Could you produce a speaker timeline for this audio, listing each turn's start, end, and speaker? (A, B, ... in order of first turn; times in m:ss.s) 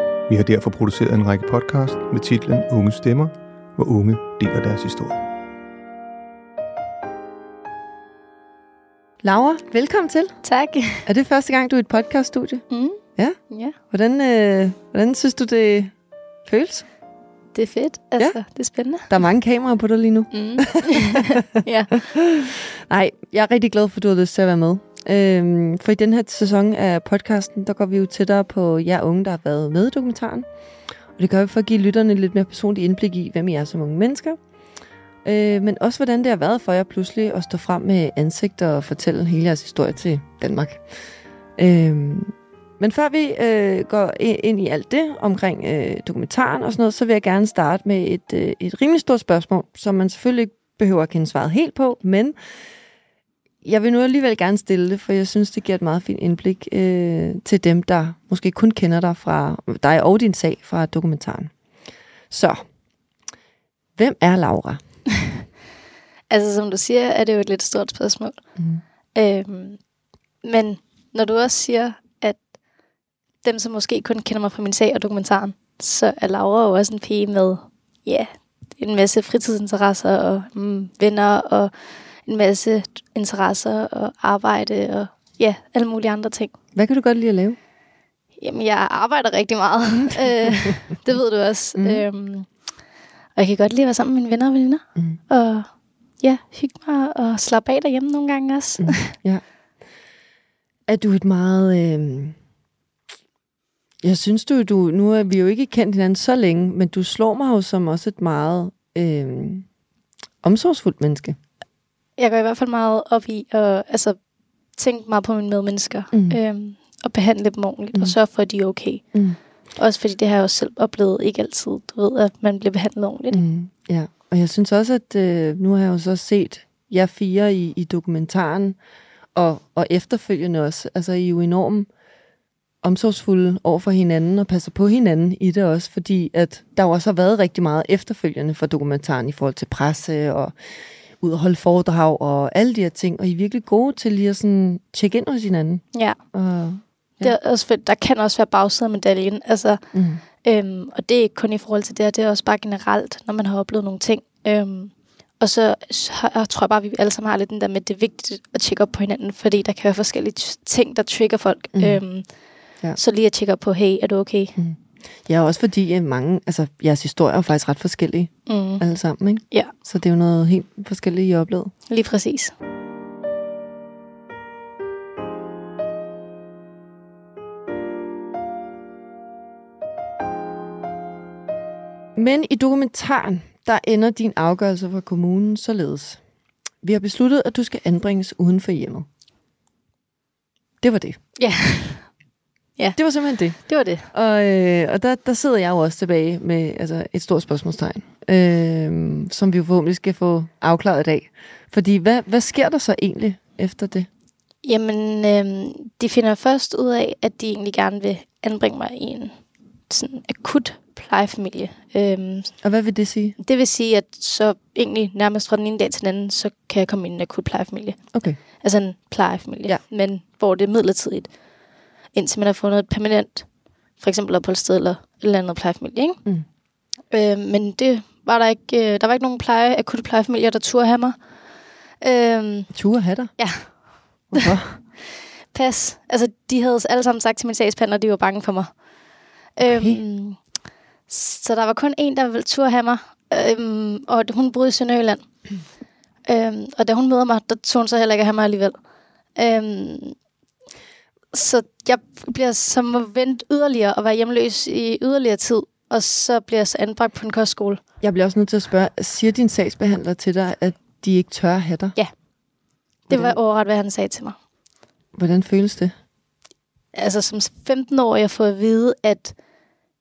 0:00.3-0:05.2 A
0:09.2-0:10.4 B
0:10.4-0:11.0 C
0:11.0-0:16.8 B
0:12.7-0:13.8 C
0:17.5-0:19.1 C
0:18.2-0:21.3 B
0:20.3-0:22.2 C
0:22.2-0:30.4 B
0:31.2-0:34.4 B
0:35.2-0:40.8 B
0:41.6-0:52.3 B
0:53.6-1:01.5 B
1:02.3-1:02.6 B
1:04.0-1:04.8 B
1:06.3-1:08.4 C
1:08.6-1:08.8 B
1:09.1-1:09.8 C
1:10.4-1:12.4 C
1:13.4-1:26.5 C
1:26.7-1:27.6 B
1:28.4-1:32.5 C
1:31.8-1:32.0 B
1:33.3-1:39.1 C
1:38.8-1:39.4 B
1:40.9-1:42.3 B
1:44.0-1:49.6 B
1:50.4-1:51.4 B
1:52.2-1:54.2 C
1:54.7-2:03.4 C
1:56.1-1:56.4 B
1:59.1-1:59.4 B
2:03.3-2:08.8 B
2:09.3-2:11.9 B
2:12.8-2:27.4 B
2:25.9-2:26.2 C
2:27.2-2:42.3 C
2:29.9-2:30.2 B
2:41.7-2:42.0 B
2:42.9-2:44.5 C
2:44.6-2:51.7 B
2:48.4-2:48.8 C
2:51.9-2:52.5 C
3:02.2-3:06.2 B
3:06.8-3:09.0 B
3:10.8-3:11.2 B
3:11.4-3:12.1 C
3:12.8-3:14.1 C
3:13.0-3:24.1 B
3:24.6-3:32.6 C
3:32.6-3:33.4 B
3:33.4-3:41.3 C
3:38.1-3:38.4 B
3:42.1-3:46.2 C
3:47.1-3:51.2 C
3:52.0-3:52.8 C
3:52.7-3:53.8 B
3:53.4-3:54.8 C
3:54.3-3:54.8 B
3:55.5-3:58.8 C
3:59.5-4:00.5 C
3:59.6-4:00.0 B
4:01.1-4:05.3 C
4:06.2-4:08.8 C
4:09.3-4:10.2 C
4:11.3-4:17.8 C
4:18.0-4:22.0 B
4:23.0-4:24.4 C
4:23.1-4:23.4 B
4:25.1-4:25.9 B
4:26.9-4:29.4 C